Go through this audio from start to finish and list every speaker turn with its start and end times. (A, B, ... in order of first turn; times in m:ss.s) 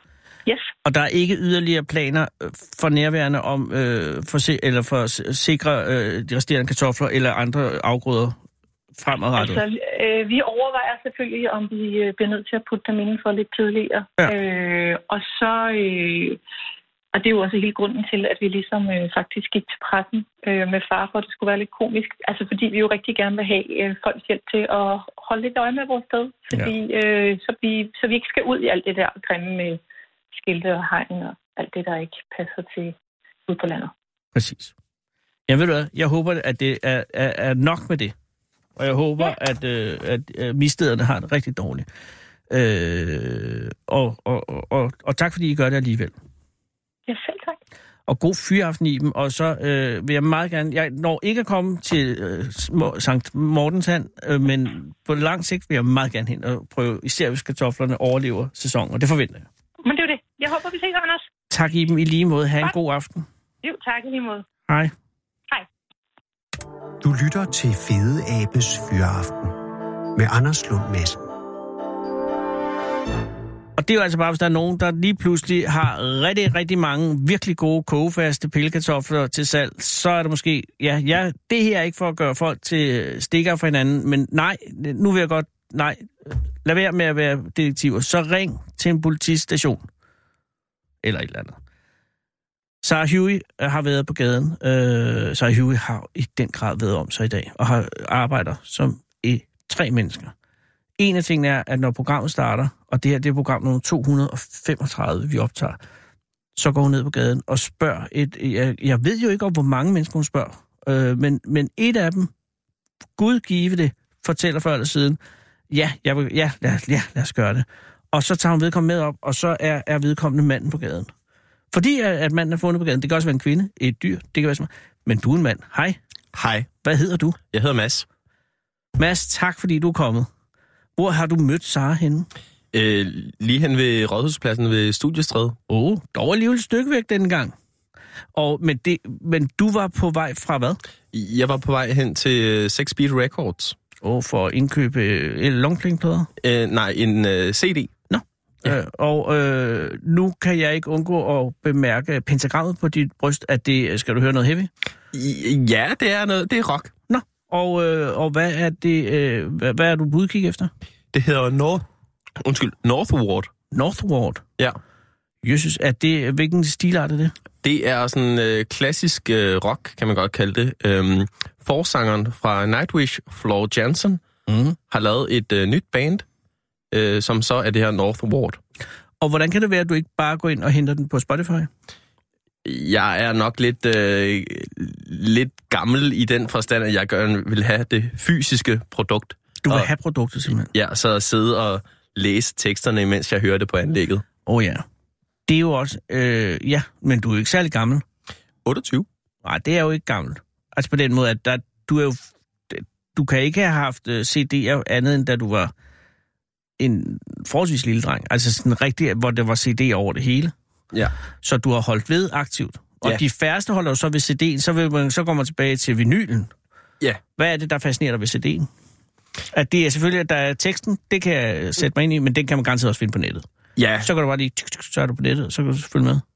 0:00.8-0:08.4 A
0:09.0-0:09.6 A
0:09.4-0:16.4 B
0:17.1-0:29.8 B
0:30.3-0:33.0 B
0:33.5-0:33.9 B
0:34.3-0:34.7 A
0:35.5-0:38.1 A
0:38.8-0:41.9 A
0:42.5-0:46.1 A
0:47.1-0:47.6 B
0:48.1-0:59.4 A
0:59.8-1:01.2 B
1:01.5-1:03.2 A
1:03.6-1:04.4 B
1:07.0-1:09.6 C
1:10.1-1:11.3 C
1:13.8-1:29.8 A
1:31.0-1:31.6 A
1:32.8-1:40.3 A
1:41.0-1:45.8 A
1:46.6-1:52.3 A
1:53.2-1:55.2 A
1:55.7-2:01.1 A
2:01.7-2:06.0 A
2:06.3-2:06.7 D
2:06.8-2:07.4 A
2:07.5-2:08.0 D
2:09.0-2:10.3 A
2:11.0-2:12.3 A
2:12.7-2:15.6 D
2:15.7-2:17.5 A
2:18.3-2:20.8 A
2:21.1-2:23.8 D
2:24.0-2:26.3 A
2:26.4-2:28.0 D
2:28.1-2:34.7 A
2:35.1-2:36.9 D
2:37.1-2:40.7 A
2:41.1-2:41.8 D
2:42.4-2:43.5 D
2:43.7-2:44.4 A
2:45.4-2:47.3 A
2:47.6-2:54.2 D
2:54.5-2:54.8 A
2:54.9-2:56.2 D
2:56.9-2:58.6 D
2:59.2-3:01.7 A
3:02.6-3:09.9 D
3:09.6-3:10.7 A
3:10.7-3:14.2 D
3:14.4-3:14.8 A
3:15.5-3:18.0 A
3:18.6-3:19.1 D
3:19.4-3:25.7 A
3:26.8-3:30.5 A
3:31.4-3:36.5 A
3:37.4-3:38.7 A
3:39.5-3:43.4 A
3:43.8-3:44.1 D
3:44.0-3:46.2 A